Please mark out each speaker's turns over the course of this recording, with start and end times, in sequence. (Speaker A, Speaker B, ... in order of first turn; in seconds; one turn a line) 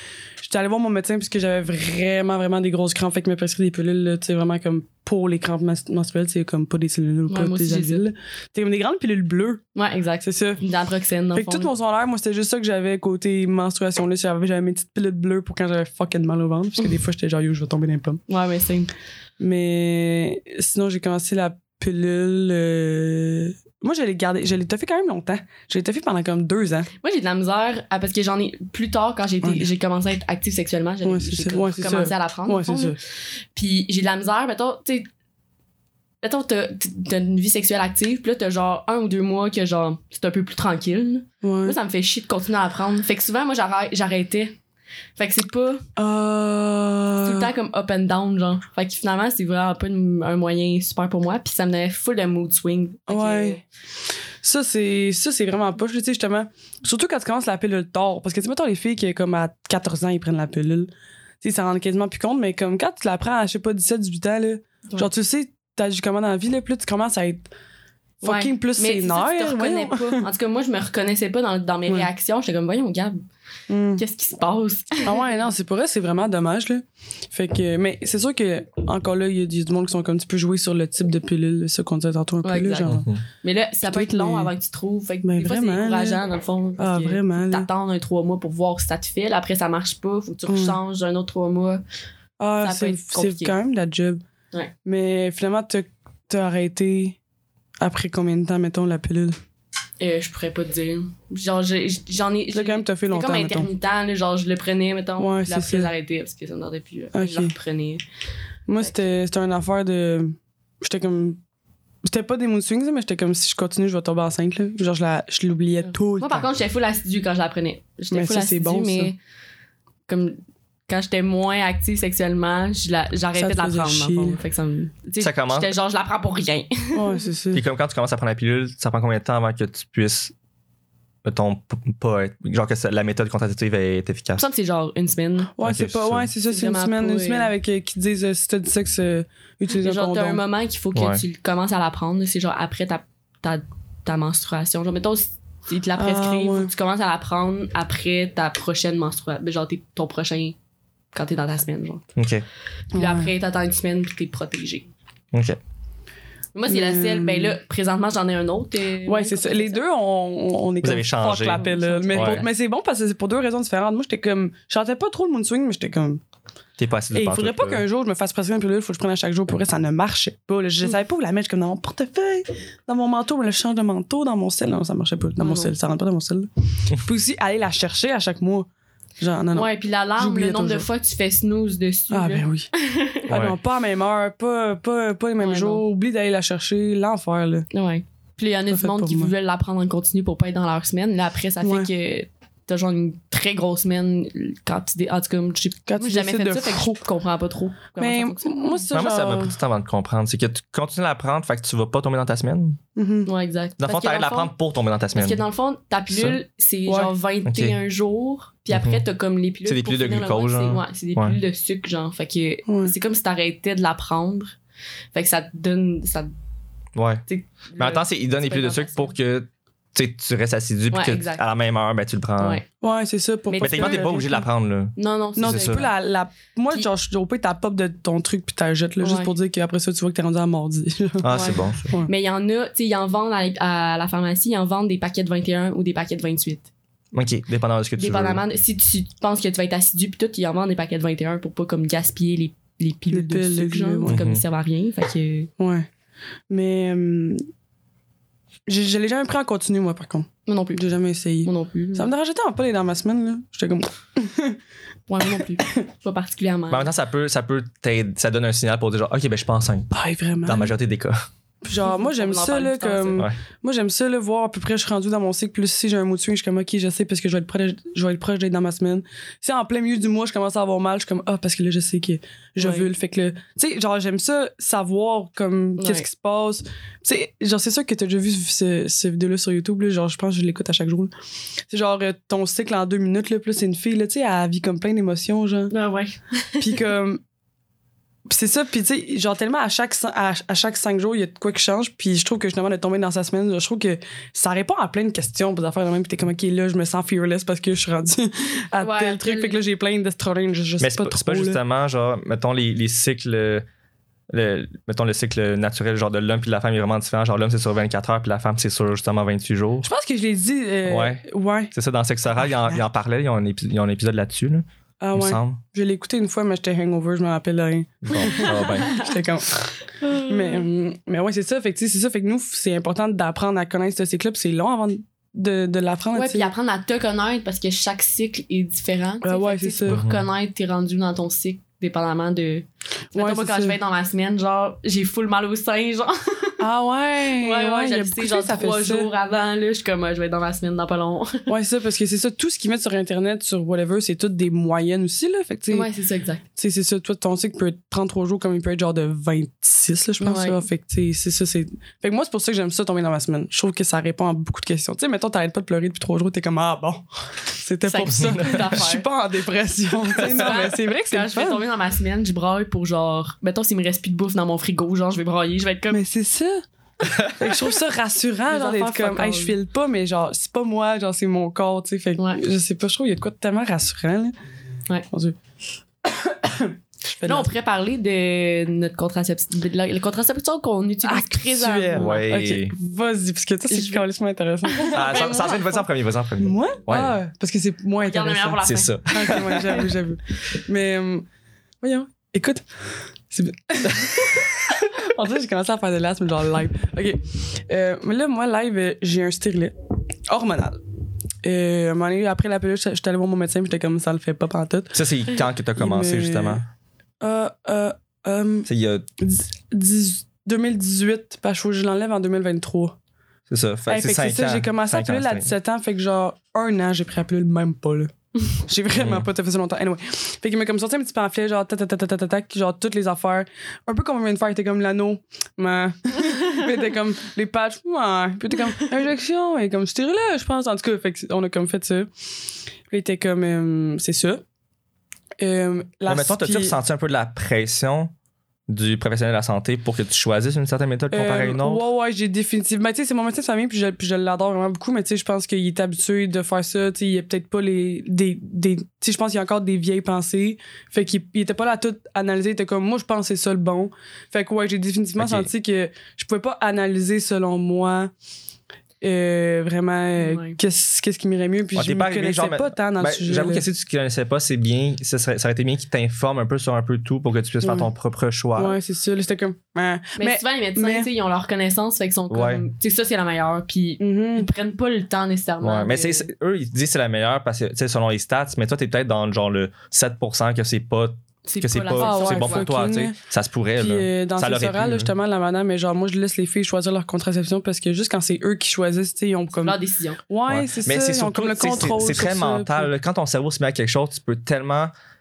Speaker A: 0.4-9.6
Speaker B: 7.3-8.1
Speaker B: 9.8-11.7
Speaker A: 10.2-10.6
Speaker A: 11.3-18.2
Speaker B: 18.3-18.9
Speaker A: 19.4-26.9
Speaker B: 27.0-33.0
Speaker A: 31.0-33.0
Speaker B: 33.5-35.1
Speaker B: 36.2-44.6
Speaker A: 41.4-41.8
Speaker B: 45.2-45.9
Speaker A: 46.0-47.5
Speaker B: 47.2-53.6
Speaker A: 53.1-53.6
Speaker A: 54.4-60.9
Speaker A: 61.4-67.5
Speaker A: 68.2-70.2
Speaker B: 68.2-73.2
Speaker A: 73.7-74.0
Speaker B: 74.0-75.1
Speaker A: 75.0-83.1
Speaker B: 82.4-91.8
Speaker C: 82.8-83.2
Speaker A: 83.8-84.5
Speaker A: 85.2-86.2
Speaker A: 86.8-87.7
Speaker A: 90.5-90.8
Speaker A: 92.4-94.2
Speaker B: 92.6-93.5
Speaker A: 94.8-97.2
Speaker A: 97.8-99.4
Speaker B: 100.0-108.0
Speaker A: 102.5-103.7
Speaker A: 105.2-105.9
Speaker A: 107.1-107.5
Speaker A: 108.7-111.4
Speaker A: 112.0-116.5
Speaker B: 115.8-119.2
Speaker A: 118.1-119.1
Speaker B: 120.1-127.2
Speaker A: 123.3-124.4
Speaker C: 125.2-125.7
Speaker A: 126.9-127.6
Speaker C: 127.5-130.3
Speaker C: 131.2-134.4
Speaker B: 134.4-135.5
Speaker A: 135.6-140.4
Speaker C: 135.6-136.3
Speaker B: 136.5-137.5
Speaker B: 139.7-150.6
Speaker C: 140.9-141.2
Speaker A: 146.0-146.7
Speaker B: 151.1-152.1
Speaker C: 152.2-152.4
Speaker B: 152.9-154.9
Speaker A: 152.9-153.3
Speaker C: 155.3-155.6
Speaker B: 156.6-159.8
Speaker A: 156.7-157.6
Speaker A: 159.1-166.2
Speaker C: 160.8-161.6
Speaker B: 161.5-162.5
Speaker C: 162.1-162.4
Speaker C: 166.8-167.8
Speaker A: 167.1-178.7
Speaker B: 175.4-175.7
Speaker A: 179.2-180.9
Speaker B: 179.5-183.3
Speaker A: 182.1-182.7
Speaker A: 183.3-187.7
Speaker C: 183.3-183.6
Speaker B: 185.4-185.8
Speaker B: 187.7-198.9
Speaker A: 188.7-189.3
Speaker A: 191.6-191.9
Speaker A: 195.9-197.0
Speaker A: 198.0-199.6
Speaker C: 198.9-202.8
Speaker A: 203.0-203.3
Speaker B: 203.3-204.5
Speaker C: 203.8-205.4
Speaker B: 205.1-214.5
Speaker C: 206.1-206.4
Speaker A: 206.9-207.1
Speaker C: 207.4-207.8
Speaker C: 208.7-209.0
Speaker C: 209.6-211.4
Speaker A: 212.7-212.9
Speaker B: 215.1-216.3
Speaker C: 216.9-217.2
Speaker B: 217.3-219.1
Speaker C: 217.8-222.6
Speaker B: 220.9-221.4
Speaker B: 222.4-222.6
Speaker A: 222.8-224.4
Speaker B: 223.5-224.4
Speaker C: 223.6-225.9
Speaker B: 225.0-225.9
Speaker A: 225.4-232.1
Speaker B: 229.0-229.3
Speaker C: 231.2-231.9
Speaker B: 231.3-236.7
Speaker C: 237.1-238.4
Speaker B: 238.0-245.5
Speaker A: 243.1-244.2
Speaker C: 244.1-244.4
Speaker A: 245.6-245.9
Speaker A: 246.5-247.4
Speaker A: 248.7-254.6
Speaker B: 250.5-250.8
Speaker B: 251.4-252.1
Speaker B: 255.1-256.9
Speaker C: 256.7-259.9
Speaker A: 259.9-260.7
Speaker C: 260.4-261.2
Speaker A: 261.6-281.1
Speaker B: 261.8-263.3
Speaker B: 272.6-272.9
Speaker B: 275.8-276.1
Speaker A: 281.7-285.7
Speaker B: 285.7-286.8
Speaker A: 286.6-287.2
Speaker A: 288.3-301.6
Speaker B: 298.8-299.6
Speaker C: 300.8-303.6
Speaker C: 304.3-309.9
Speaker A: 309.8-311.7
Speaker C: 310.9-315.6
Speaker A: 312.4-312.8
Speaker A: 315.0-319.7
Speaker C: 318.0-318.9
Speaker B: 318.1-319.1
Speaker B: 320.0-320.6
Speaker A: 320.2-326.5
Speaker B: 326.1-336.6
Speaker A: 329.2-330.0
Speaker C: 329.9-330.2
Speaker A: 333.1-333.8
Speaker A: 336.6-339.1
Speaker B: 337.4-341.5
Speaker A: 341.5-345.9
Speaker B: 345.7-346.4
Speaker A: 346.6-361.6
Speaker B: 350.2-350.6
Speaker B: 357.8-359.1
Speaker C: 358.1-358.7
Speaker B: 360.2-366.0
Speaker A: 365.9-366.6
Speaker A: 367.4-374.3
Speaker B: 368.5-369.6
Speaker B: 372.2-372.4
Speaker A: 375.1-375.4
Speaker A: 376.1-377.5
Speaker B: 377.2-382.2
Speaker A: 381.0-385.6
Speaker C: 381.9-382.7
Speaker B: 383.7-384.0
Speaker B: 384.7-385.8
Speaker C: 384.9-387.2
Speaker A: 386.4-391.3
Speaker B: 388.0-389.6
Speaker C: 388.6-389.9
Speaker A: 391.8-399.7
Speaker A: 400.3-400.8
Speaker A: 401.4-405.0
Speaker C: 404.9-406.6
Speaker A: 405.8-406.6
Speaker A: 407.2-408.7
Speaker C: 408.7-409.1
Speaker A: 409.2-413.0
Speaker C: 413.5-415.5
Speaker A: 413.9-432.1
Speaker C: 419.0-419.3
Speaker A: 432.9-434.4
Speaker A: 435.4-436.8
Speaker C: 436.1-438.1
Speaker C: 438.7-441.9
Speaker A: 441.1-458.1
Speaker C: 455.2-455.5
Speaker A: 459.0-463.6
Speaker B: 460.2-460.6
Speaker C: 461.8-468.8
Speaker A: 467.6-467.9
Speaker A: 468.6-471.1
Speaker B: 470.2-476.3
Speaker C: 472.3-472.6
Speaker A: 474.0-474.5
Speaker C: 475.6-485.1
Speaker B: 481.5-482.7
Speaker A: 482.0-483.2
Speaker A: 483.8-489.8
Speaker B: 489.6-490.2
Speaker A: 490.3-492.9
Speaker C: 490.5-494.9